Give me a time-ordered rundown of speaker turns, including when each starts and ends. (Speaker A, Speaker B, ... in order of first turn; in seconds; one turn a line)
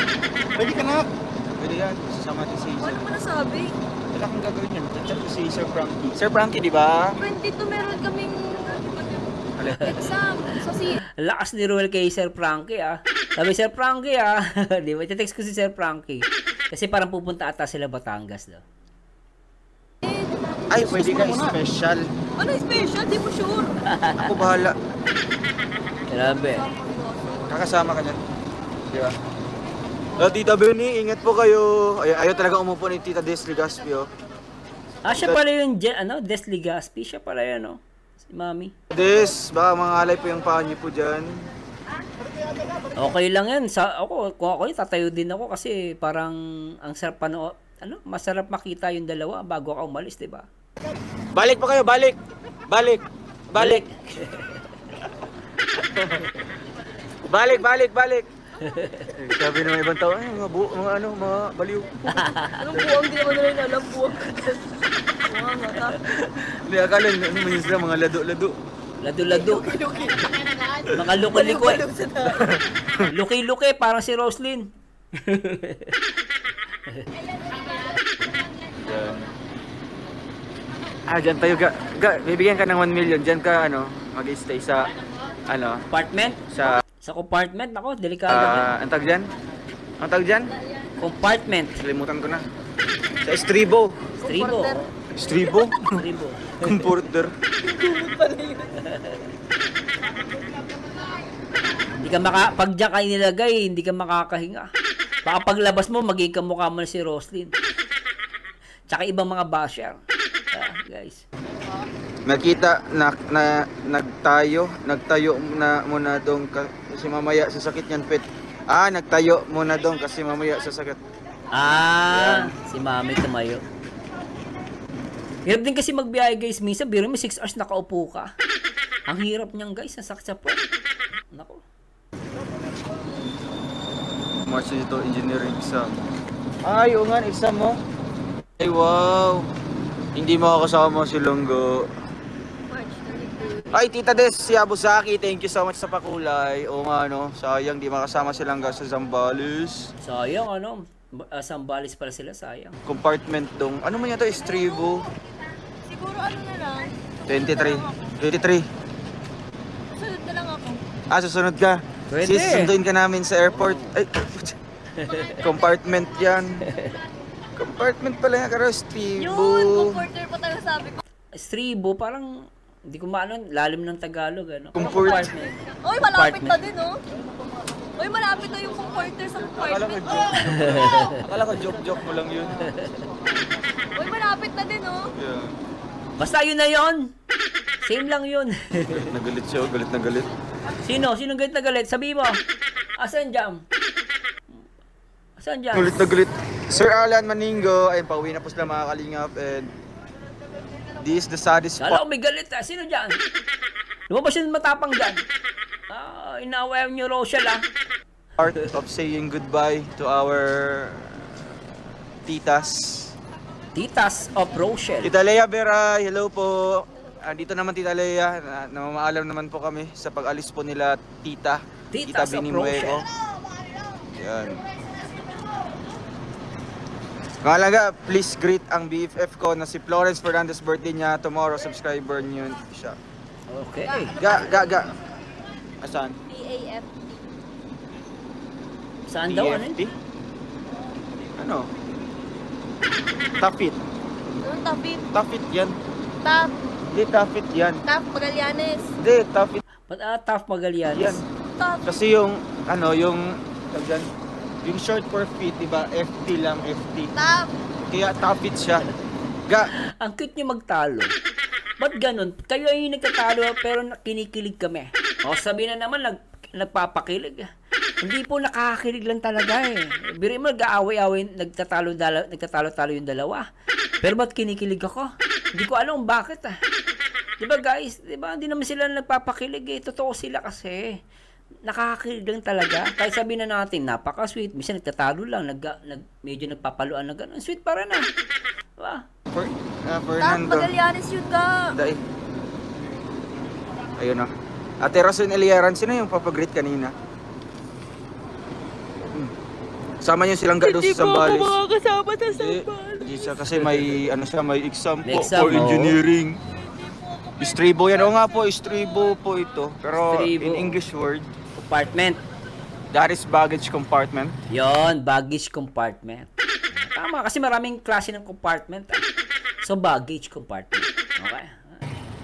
Speaker A: 0.6-1.1
Speaker A: 1.6-3.0
Speaker B: 2.8-3.7
Speaker A: 4.1-7.2
Speaker B: 7.2-11.0
Speaker C: 9.7-10.0
Speaker C: 11.2-18.6
Speaker B: 20.0-21.6
Speaker A: 20.7-22.1
Speaker B: 22.4-23.7
Speaker C: 23.8-24.4
Speaker A: 24.2-24.8
Speaker C: 26.1-26.6
Speaker B: 26.1-27.9
Speaker A: 27.5-28.2
Speaker A: 30.2-34.1
Speaker C: 35.0-38.7
Speaker A: 35.1-35.4
Speaker A: 38.9-41.3
Speaker C: 43.0-50.5
Speaker A: 51.3-52.2
Speaker A: 52.7-53.8
Speaker C: 53.6-54.6
Speaker A: 55.8-56.3
Speaker A: 57.3-58.3
Speaker C: 58.6-59.1
Speaker A: 59.2-62.0
Speaker C: 62.1-62.6
Speaker B: 62.4-66.4
Speaker A: 66.5-68.5
Speaker C: 69.0-69.7
Speaker B: 69.3-72.6
Speaker C: 70.9-71.8
Speaker A: 72.4-73.1
Speaker C: 73.1-76.0
Speaker A: 78.8-79.3
Speaker A: 81.1-84.9
Speaker A: 85.5-85.8
Speaker C: 85.9-88.7
Speaker A: 86.5-86.8
Speaker A: 88.3-89.3
Speaker A: 90.0-90.5
Speaker C: 91.0-91.8
Speaker A: 91.8-92.5
Speaker A: 93.2-94.1
Speaker B: 94.2-95.8
Speaker C: 94.2-94.9
Speaker A: 95.1-96.0
Speaker C: 95.9-96.8
Speaker A: 96.6-97.3
Speaker B: 97.6-98.7
Speaker C: 98.8-99.2
Speaker C: 102.0-104.7
Speaker C: 105.2-107.5
Speaker C: 108.9-110.0
Speaker C: 110.5-111.2
Speaker A: 112.2-121.0
Speaker C: 121.5-123.6
Speaker A: 122.1-122.5
Speaker C: 125.5-128.3
Speaker C: 129.1-130.6
Speaker C: 131.3-131.6
Speaker A: 134.4-135.9
Speaker A: 136.6-137.8
Speaker A: 138.6-139.5
Speaker A: 140.1-141.9
Speaker B: 142.7-143.8
Speaker A: 143.7-149.9
Speaker C: 150.0-152.8
Speaker A: 152.8-155.0
Speaker B: 155.9-157.7
Speaker A: 157.3-158.7
Speaker B: 159.9-160.8
Speaker A: 161.1-164.5
Speaker C: 162.1-162.7
Speaker C: 163.5-164.0
Speaker C: 164.9-165.3
Speaker B: 165.1-165.6
Speaker A: 165.4-166.7
Speaker A: 167.6-170.1
Speaker B: 169.2-171.0
Speaker C: 171.4-175.5
Speaker A: 174.7-175.3
Speaker B: 174.8-177.0
Speaker C: 176.1-176.5
Speaker B: 178.0-181.1
Speaker A: 179.4-182.7
Speaker C: 180.4-181.1
Speaker C: 182.8-183.1
Speaker B: 183.9-185.1
Speaker A: 185.1-185.5
Speaker C: 186.2-187.1
Speaker C: 187.8-189.1
Speaker A: 188.9-190.3
Speaker C: 190.8-192.4
Speaker C: 193.0-193.6
Speaker C: 195.4-196.1
Speaker A: 195.7-199.7
Speaker A: 201.0-202.0
Speaker C: 201.8-203.2
Speaker C: 204.1-205.2
Speaker C: 205.9-207.6
Speaker A: 208.4-211.4
Speaker A: 212.2-213.1
Speaker C: 213.7-215.1
Speaker A: 215.0-223.0
Speaker C: 221.9-223.0
Speaker A: 224.2-224.6
Speaker A: 227.4-233.0
Speaker C: 233.5-234.2
Speaker B: 233.9-234.5
Speaker A: 234.2-234.9
Speaker A: 235.8-236.2
Speaker B: 236.3-237.2
Speaker C: 239.1-239.8
Speaker A: 239.3-239.9
Speaker A: 241.4-241.7
Speaker A: 243.4-243.8
Speaker B: 244.4-245.0
Speaker A: 245.1-245.8
Speaker B: 246.2-246.5
Speaker A: 246.9-247.8
Speaker B: 247.8-248.9
Speaker A: 249.0-249.6
Speaker C: 249.9-251.2
Speaker A: 250.9-251.2
Speaker B: 251.6-252.0
Speaker A: 251.8-254.1
Speaker A: 254.6-257.1
Speaker B: 257.1-257.5
Speaker A: 257.9-258.9
Speaker C: 260.0-261.1
Speaker C: 261.8-267.5
Speaker C: 268.0-273.4
Speaker C: 274.0-276.6
Speaker C: 277.4-281.0
Speaker C: 281.6-288.1
Speaker C: 288.8-289.0
Speaker A: 289.3-290.7
Speaker B: 290.2-291.8
Speaker A: 291.7-292.0
Speaker A: 294.0-294.3
Speaker A: 294.8-296.9
Speaker A: 300.0-301.6
Speaker B: 300.6-303.5
Speaker A: 302.3-306.4
Speaker C: 305.1-306.0
Speaker B: 306.9-309.1
Speaker A: 307.4-311.3
Speaker C: 310.0-310.8
Speaker C: 311.6-312.2
Speaker A: 312.9-314.3
Speaker C: 314.5-319.0
Speaker C: 319.6-321.9